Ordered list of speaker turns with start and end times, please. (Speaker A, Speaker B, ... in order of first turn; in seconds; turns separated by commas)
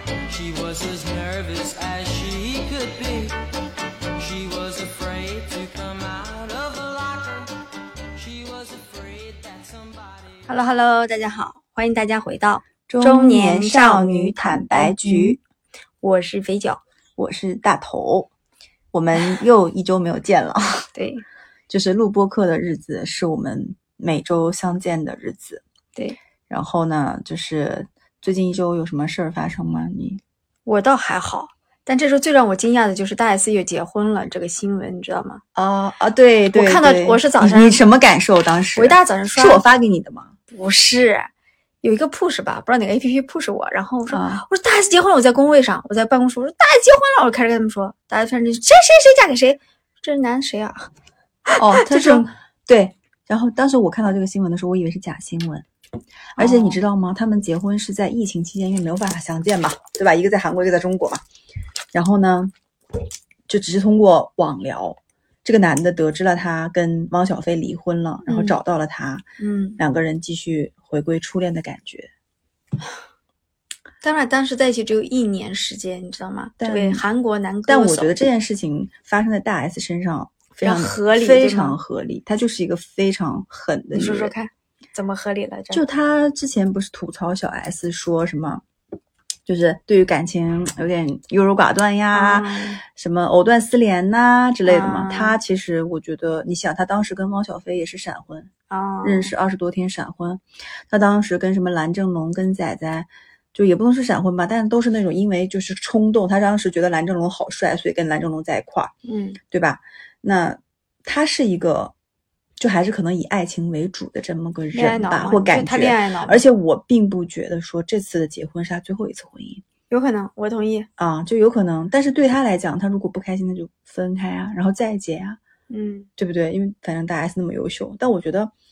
Speaker A: 0.3-3.4, Speaker A: 4.1-7.5, Speaker A: 8.2-10.5, Speaker B: 10.5-15.4, Speaker C: 12.9-15.4, Speaker B: 16.0-16.8, Speaker C: 17.2-18.3, Speaker C: 18.9-20.9, Speaker B: 20.9-21.2, Speaker C: 21.7-25.6, Speaker C: 26.5-30.2, Speaker B: 30.7-35.4, Speaker C: 35.5-40.3, Speaker B: 36.5-37.8, Speaker B: 38.8-39.6, Speaker B: 40.5-41.3, Speaker B: 41.8-50.9, Speaker C: 44.1-44.4, Speaker B: 51.5-52.2, Speaker C: 51.6-55.7, Speaker C: 56.4-61.2, Speaker B: 56.4-56.8, Speaker C: 61.9-62.5, Speaker C: 63.5-69.2, Speaker B: 68.3-68.6, Speaker B: 69.4-69.8, Speaker C: 69.8-72.1, Speaker B: 74.0-78.2, Speaker C: 76.6-77.0, Speaker C: 77.7-84.3, Speaker B: 80.6-81.8, Speaker B: 83.9-85.8, Speaker C: 85.7-88.6, Speaker C: 89.5-98.5, Speaker B: 92.1-92.8, Speaker B: 94.7-95.4, Speaker B: 98.7-99.3, Speaker C: 99.0-108.9, Speaker B: 109.0-109.4, Speaker C: 109.5-111.9, Speaker C: 112.6-119.6, Speaker B: 114.7-116.4, Speaker B: 119.9-120.9, Speaker C: 121.0-125.4, Speaker B: 125.7-126.1, Speaker C: 126.2-128.5